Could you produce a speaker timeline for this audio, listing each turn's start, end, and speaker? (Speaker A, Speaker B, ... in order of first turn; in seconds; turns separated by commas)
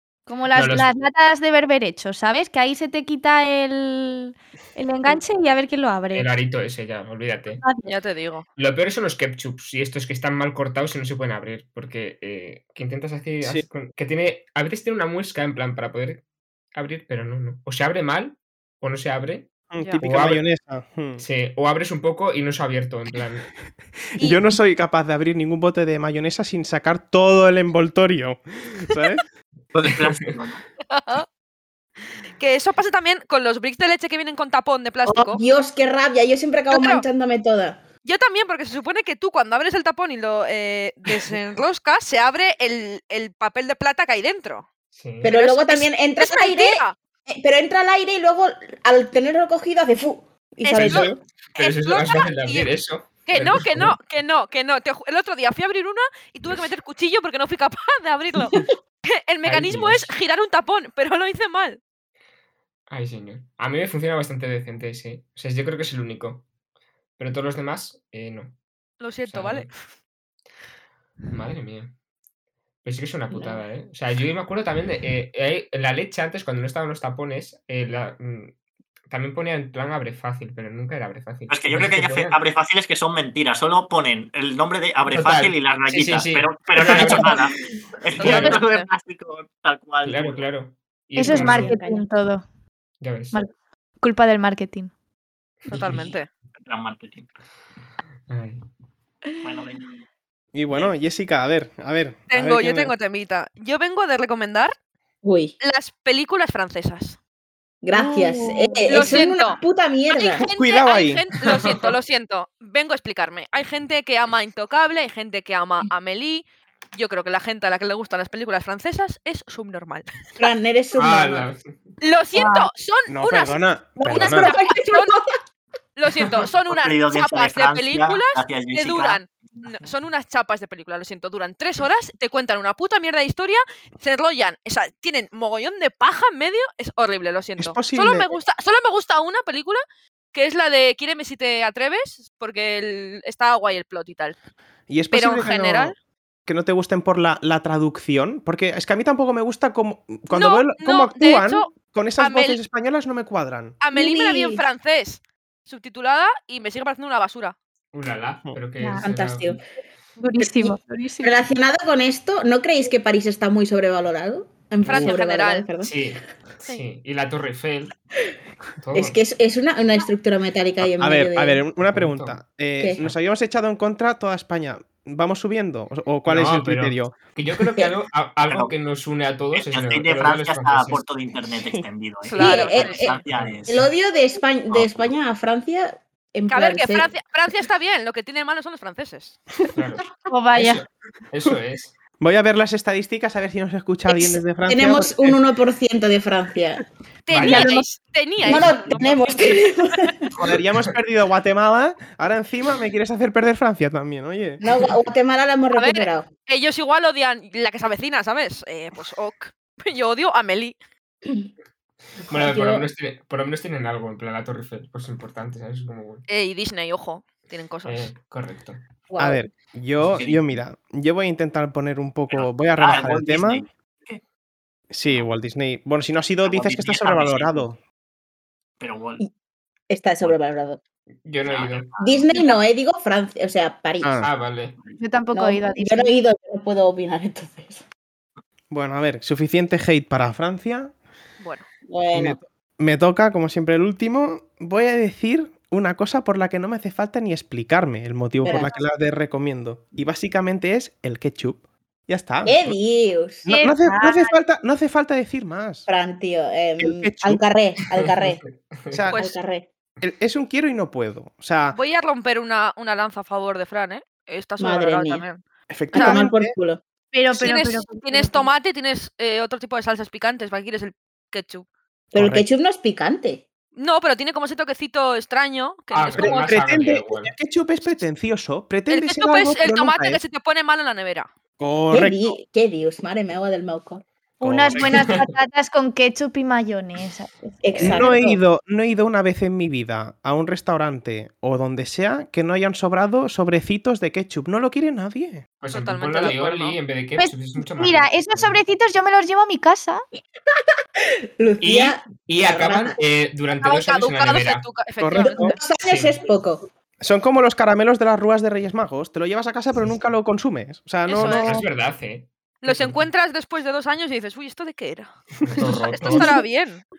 Speaker A: 0.3-6.3, Speaker B: 0.5-0.9, Speaker B: 6.1-7.6, Speaker A: 7.6-7.9, Speaker C: 7.8-8.4, Speaker B: 8.6-16.2, Speaker D: 13.4-13.7, Speaker B: 16.7-20.4, Speaker D: 19.7-21.2, Speaker B: 21.2-23.5, Speaker D: 24.1-29.2, Speaker E: 29.7-30.6, Speaker C: 30.9-31.2, Speaker C: 32.4-35.4, Speaker F: 35.0-37.8, Speaker C: 36.7-37.0, Speaker C: 38.0-44.7, Speaker B: 44.9-45.3, Speaker F: 45.2-51.2, Speaker C: 45.2-46.9, Speaker B: 50.7-54.0, Speaker C: 50.8-61.8, Speaker B: 59.4-60.1, Speaker B: 62.9-66.5, Speaker B: 67.2-68.6, Speaker C: 69.0-69.8, Speaker B: 69.2-69.7, Speaker B: 71.3-71.9, Speaker B: 72.8-78.5, Speaker F: 73.3-73.6, Speaker B: 79.1-82.4, Speaker E: 81.5-90.5, Speaker B: 85.1-87.5, Speaker C: 88.2-88.9, Speaker B: 88.2-88.6, Speaker B: 90.0-91.7, Speaker A: 91.1-92.4, Speaker F: 91.2-92.0, Speaker B: 93.0-93.4, Speaker A: 93.3-94.9, Speaker B: 95.7-96.1, Speaker C: 95.7-96.3, Speaker E: 96.6-97.3, Speaker B: 98.3-98.6, Speaker E: 99.4-100.0, Speaker D: 100.5-102.9, Speaker C: 102.3-104.8, Speaker F: 105.2-105.5, Speaker C: 105.6-107.2, Speaker F: 107.8-110.4, Speaker A: 107.9-109.3, Speaker C: 108.9-120.1, Speaker D: 110.5-111.3, Speaker B: 111.6-111.8, Speaker F: 120.4-121.5, Speaker B: 121.0-121.7, Speaker C: 122.0-125.2, Speaker A: 122.3-122.7, Speaker D: 123.1-124.5, Speaker F: 124.0-125.4, Speaker C: 126.0-139.8, Speaker E: 126.6-129.9, Speaker D: 137.6-138.3, Speaker C: 140.3-144.3, Speaker D: 144.9-145.9, Speaker C: 145.1-145.9, Speaker D: 146.4-153.8, Speaker C: 150.3-152.6, Speaker C: 153.8-157.6, Speaker F: 153.9-154.6, Speaker B: 157.9-159.6, Speaker A: 158.8-159.1, Speaker F: 158.9-159.6, Speaker A: 160.2-161.3, Speaker F: 160.4-165.9, Speaker C: 164.8-165.7, Speaker B: 165.8-167.9, Speaker B: 168.8-169.2, Speaker F: 168.9-171.6, Speaker D: 170.8-177.2, Speaker B: 171.9-172.4, Speaker B: 176.2-181.1, Speaker E: 178.5-178.7, Speaker E: 179.5-183.9, Speaker C: 182.2-183.1, Speaker F: 182.4-187.1, Speaker B: 183.3-183.6, Speaker E: 184.7-185.1, Speaker C: 186.5-189.4, Speaker B: 189.7-191.9, Speaker A: 190.2-190.8, Speaker D: 192.2-195.4, Speaker F: 194.1-196.8, Speaker C: 197.2-199.7, Speaker B: 197.3-197.7, Speaker A: 197.4-198.7, Speaker F: 198.4-200.3, Speaker D: 200.4-204.6, Speaker F: 204.6-206.3, Speaker C: 205.7-210.7, Speaker B: 212.3-216.2, Speaker F: 212.3-212.9, Speaker C: 216.3-218.1, Speaker B: 217.8-218.8, Speaker F: 219.1-219.5, Speaker D: 219.2-223.6, Speaker E: 220.1-220.5, Speaker E: 222.3-224.2, Speaker D: 224.9-227.8, Speaker E: 226.4-227.6, Speaker E: 228.8-229.2, Speaker F: 229.9-230.8, Speaker B: 231.2-231.9, Speaker E: 231.4-232.2, Speaker F: 232.0-234.2, Speaker D: 234.0-234.3, Speaker B: 234.2-234.8, Speaker A: 234.9-236.1, Speaker F: 235.3-237.8, Speaker D: 238.7-240.9, Speaker C: 241.4-241.7, Speaker F: 241.9-242.4, Speaker D: 242.1-252.8, Speaker F: 248.4-248.7, Speaker F: 252.4-253.5, Speaker D: 253.4-255.9, Speaker A: 253.5-254.4, Speaker F: 255.9-258.4, Speaker D: 256.8-257.4, Speaker B: 258.0-259.1, Speaker D: 258.9-259.2, Speaker C: 259.1-259.3, Speaker F: 259.1-259.7, Speaker D: 260.0-261.8, Speaker C: 261.7-265.4, Speaker F: 264.6-265.2, Speaker D: 265.7-266.6, Speaker F: 265.9-266.8, Speaker A: 267.1-268.5, Speaker C: 267.3-271.6, Speaker F: 272.1-273.4, Speaker D: 272.1-272.5, Speaker C: 273.8-276.9, Speaker B: 275.9-277.3, Speaker D: 276.1-280.2, Speaker C: 278.9-281.3, Speaker D: 281.6-282.3, Speaker F: 281.9-284.0, Speaker A: 284.4-288.1, Speaker D: 284.4-285.2, Speaker B: 284.8-285.2, Speaker F: 287.6-288.4, Speaker D: 287.8-295.5, Speaker B: 295.6-298.6, Speaker C: 295.7-296.8, Speaker A: 297.2-300.0, Speaker F: 301.4-303.0, Speaker B: 301.6-304.7, Speaker C: 303.6-305.6, Speaker D: 305.0-305.6, Speaker F: 305.1-306.6, Speaker B: 305.9-306.2, Speaker D: 307.0-311.6, Speaker C: 311.1-311.6, Speaker B: 311.2-313.0, Speaker C: 312.6-315.1, Speaker B: 315.4-316.4, Speaker C: 315.6-316.8